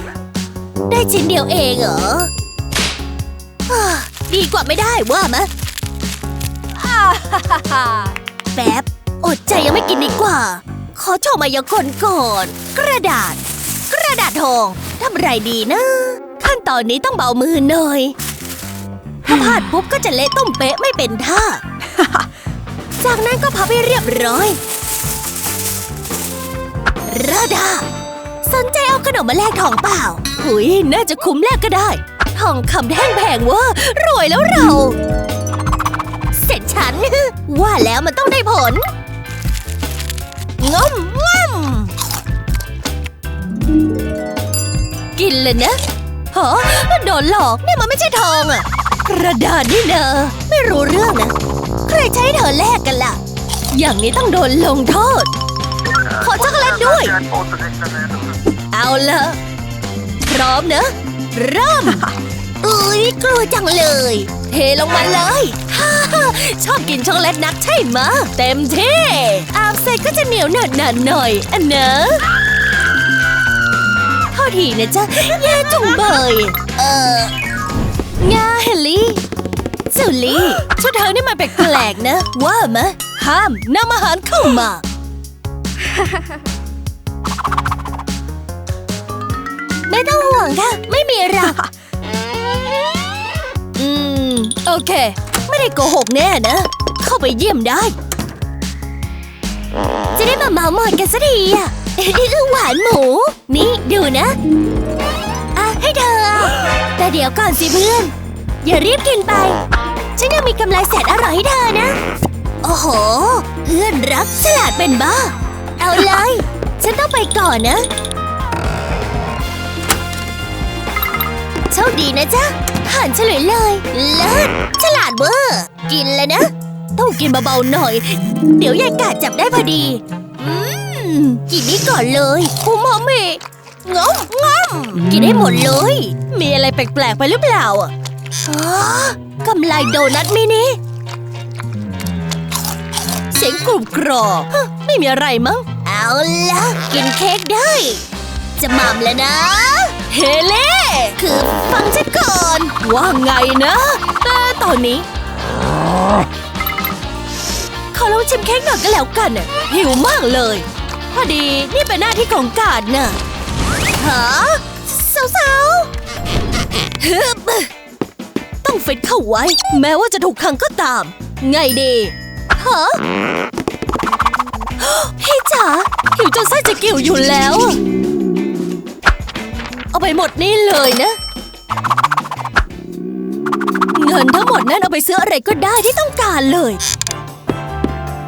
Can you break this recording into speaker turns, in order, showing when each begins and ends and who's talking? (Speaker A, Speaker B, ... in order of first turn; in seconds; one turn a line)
Speaker A: 0.9-2.3
Speaker A: 3.7-5.5
Speaker A: 6.8-18.1
Speaker A: 19.2-21.6
Speaker A: 23.0-24.6
Speaker A: 27.1-27.9
Speaker A: 28.4-35.0
Speaker A: 36.3-38.9
Speaker A: 40.6-41.9
Speaker A: 45.2-45.8
Speaker A: 46.3-51.3
Speaker A: 51.9-53.2
Speaker A: 53.7-55.3
Speaker A: 56.1-57.3
Speaker A: 58.7-59.4
Speaker A: 60.3-72.2
Speaker A: 74.3-77.3
Speaker A: 78.2-79.2
Speaker A: 79.9-84.8
Speaker A: 89.9-91.7
Speaker A: 93.8-98.0
Speaker A: 100.2-104.4
Speaker A: 105.6-109.6
Speaker A: 110.2-112.0
Speaker A: 112.6-117.9
Speaker A: 121.7-137.9
Speaker A: 138.4-140.8
Speaker A: 143.3-148.0
Speaker A: 148.6-155.1
Speaker A: 157.9-163.2
Speaker A: 164.0-165.9
Speaker A: 167.0-167.7
Speaker A: 168.6-173.0
Speaker A: 174.8-177.8
Speaker A: 179.9-181.2
Speaker A: 183.9-186.8